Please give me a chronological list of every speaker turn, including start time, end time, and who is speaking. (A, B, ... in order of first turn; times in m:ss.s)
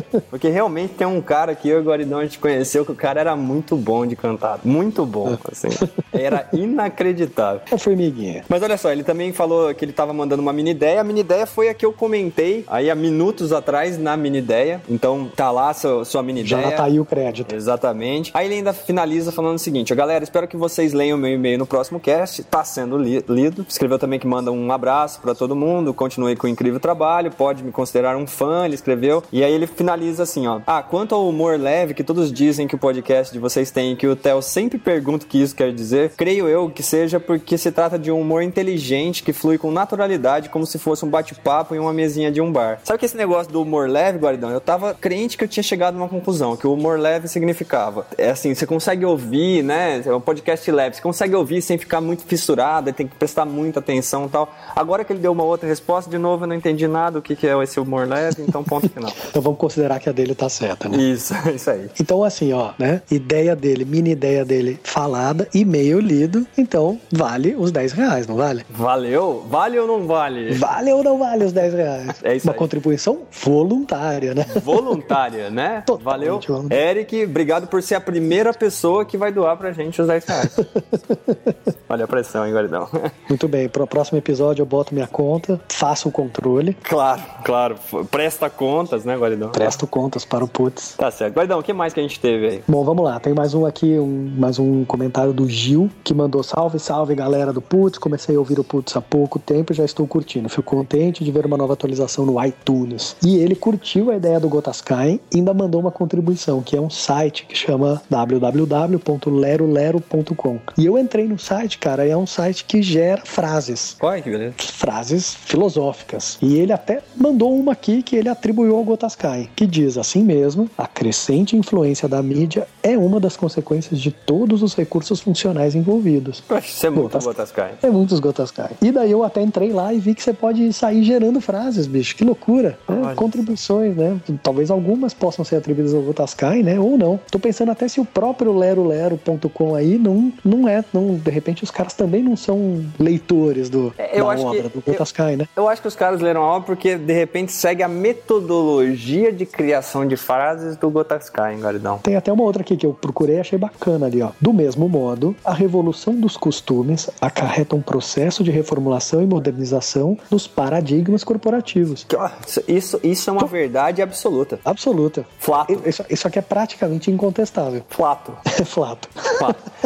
0:00.3-0:07.6 A
0:05.2-0:05.9 B
0:07.7-0:08.4 B
0:08.5-0:16.9 A
0:16.4-0:17.5 B
0:17.5-0:59.2 A
0:59.2-1:01.0 B
1:00.9-1:01.9 A
1:02.0-1:08.6 B
1:08.7-1:10.6 A
1:10.5-1:15.0 B
1:12.2-1:12.7 A
1:14.5-1:20.6 A
1:15.9-1:16.8 B
1:20.5-1:21.4 B
1:21.9-1:23.1 A
1:23.3-1:26.8 B
1:26.8-1:29.8 A
1:29.5-1:30.9 B
1:31.0-1:32.6 A
1:32.7-1:54.0 B
1:54.0-1:54.6 A
1:54.6-2:06.4 B
2:06.5-2:07.8 A
2:06.9-2:25.5 B
2:12.9-2:13.5 A
2:24.0-2:25.0 A
2:25.6-2:32.0 A
2:32.0-2:42.0 B
2:42.1-2:44.6 A
2:44.6-2:47.8 B
2:45.4-2:45.9 A
2:47.9-2:48.4 A
2:48.5-2:49.5 B
2:49.3-2:49.6 A